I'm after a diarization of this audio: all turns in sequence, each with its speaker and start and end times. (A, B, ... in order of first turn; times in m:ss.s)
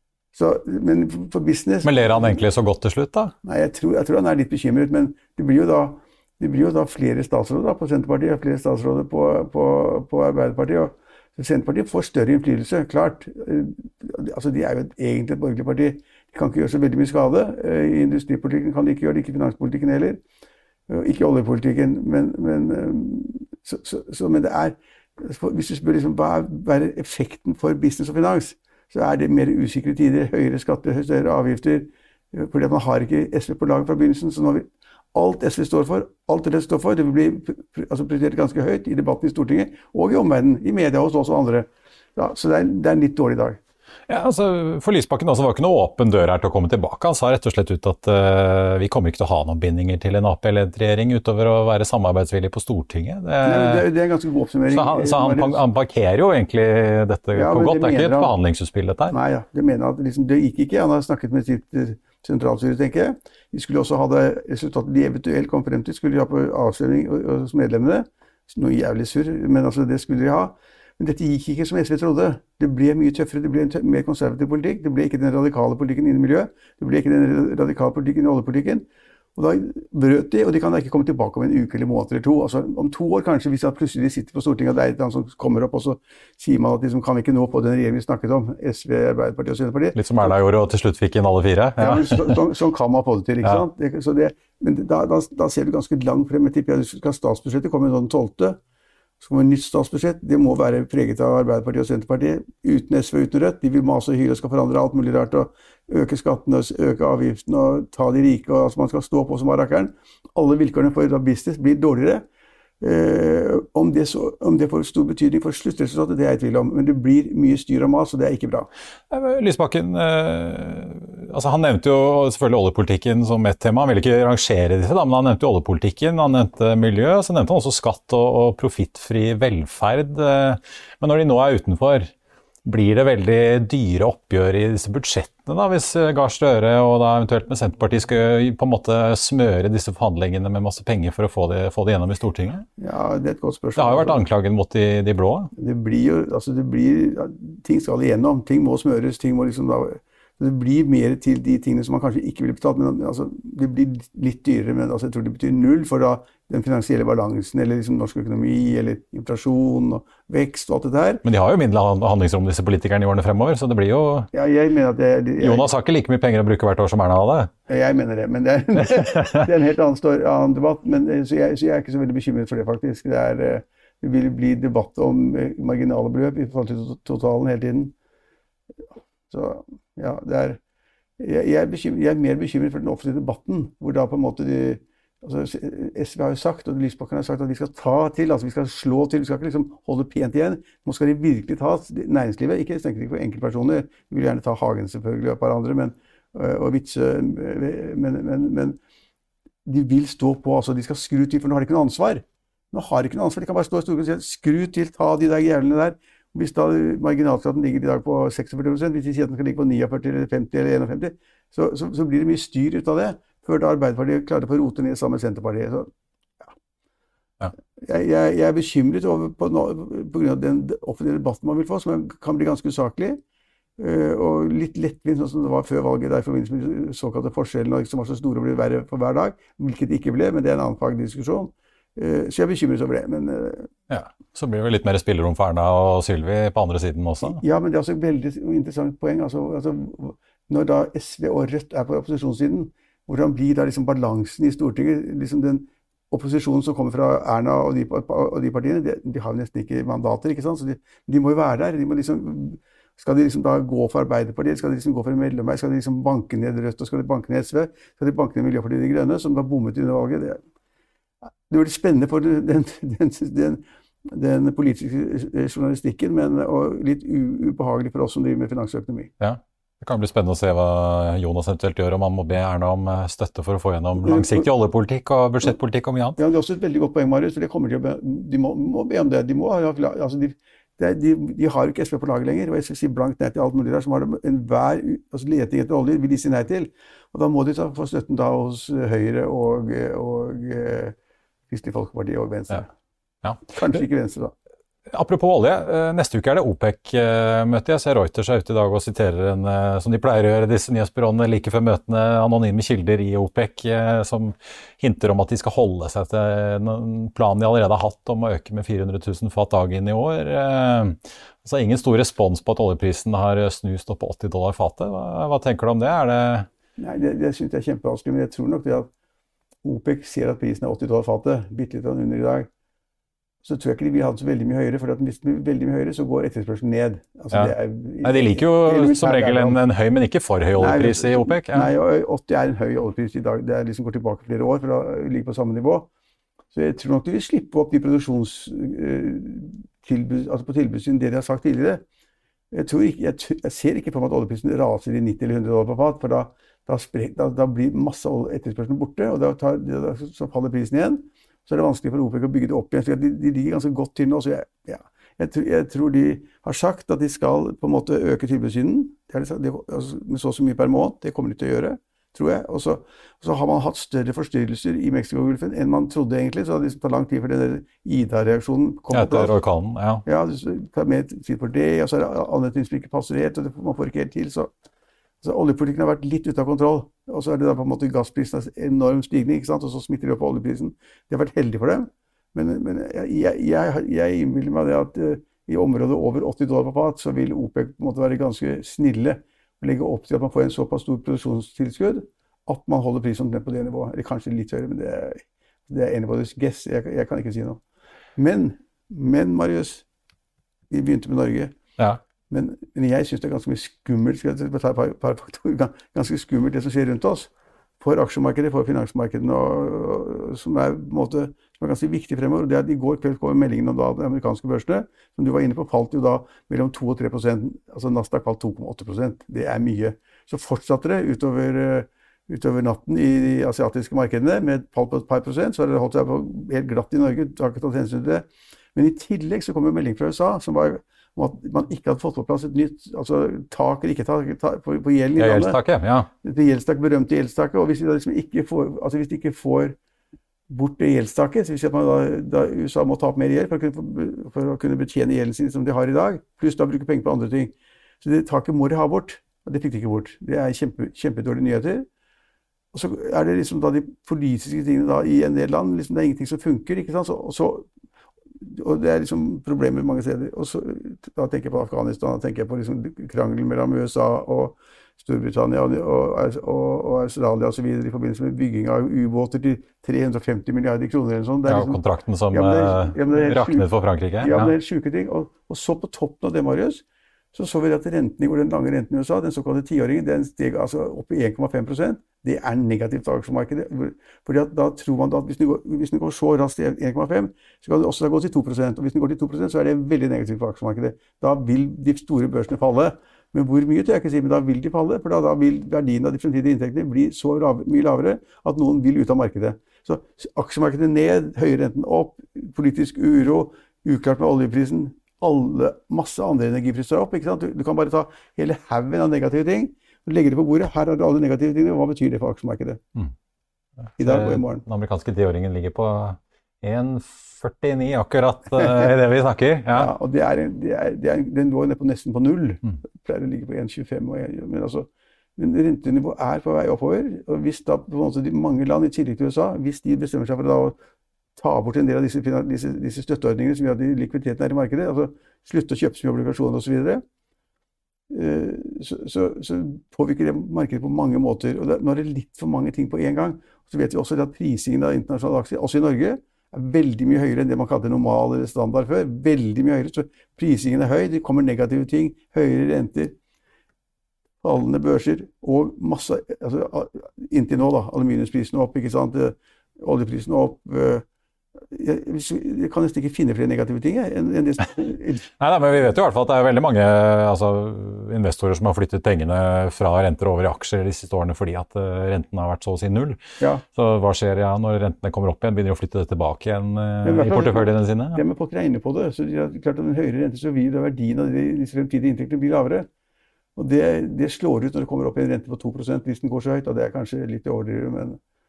0:00.3-0:02.4 A
0:01.8-0:03.3 B
0:03.4-0:20.2 A
0:20.9-0:43.6 A
0:44.1-0:53.9 B
0:53.4-0:55.6 A
0:54.7-0:59.2 B
0:57.3-0:58.4 A
0:59.1-1:30.3 A
1:30.0-1:32.4 B
1:31.8-1:38.6 A
1:39.2-1:52.2 A
1:52.8-1:58.7 A
1:59.1-2:12.1 B
2:12.6-2:22.6 B
2:22.8-2:24.2 A
2:23.8-2:25.5 B
2:25.6-2:41.2 A
2:41.2-2:44.3 B
2:44.3-2:45.7 A
2:45.4-2:47.5 B
2:47.7-2:58.0 A
2:59.3-3:00.6 A
3:01.2-3:18.8 A
3:19.6-3:35.9 A
3:37.8-3:43.2 A
3:43.8-3:53.7 A
3:53.9-3:57.4 B
3:57.2-4:20.4 A
4:21.5-4:29.1 A
4:29.2-4:36.2 B
4:34.0-4:34.5 A
4:36.2-4:51.0 A
4:51.5-4:52.7 A
4:53.5-4:54.3 A
4:54.9-5:16.5 B
5:16.8-5:18.9 A
5:19.6-5:22.5 A
5:23.4-5:29.6 A
5:27.3-5:31.7 B
5:30.6-5:35.9 A
5:36.5-5:41.8 A
5:42.5-6:09.4 A
6:08.9-6:10.0 B
6:10.0-6:14.5 A
6:15.2-6:37.6 A
6:38.2-6:39.8 A
6:40.7-6:41.6 A
6:42.3-7:15.6 A
7:15.2-7:16.1 B
7:16.2-7:19.8 A
7:20.5-7:31.9 A
7:32.7-7:37.7 A
7:38.4-8:32.8 A
7:51.5-7:54.5 B
8:34.0-8:39.9 B
8:34.0-8:34.6 A
8:39.7-8:50.8 A
8:51.4-8:57.0 A
8:58.1-9:13.2 A
9:14.4-9:21.0 A
9:21.7-9:25.3 A
9:25.4-9:33.2 B
9:33.8-9:38.2 B
9:37.0-9:42.9 A
9:43.6-9:48.2 A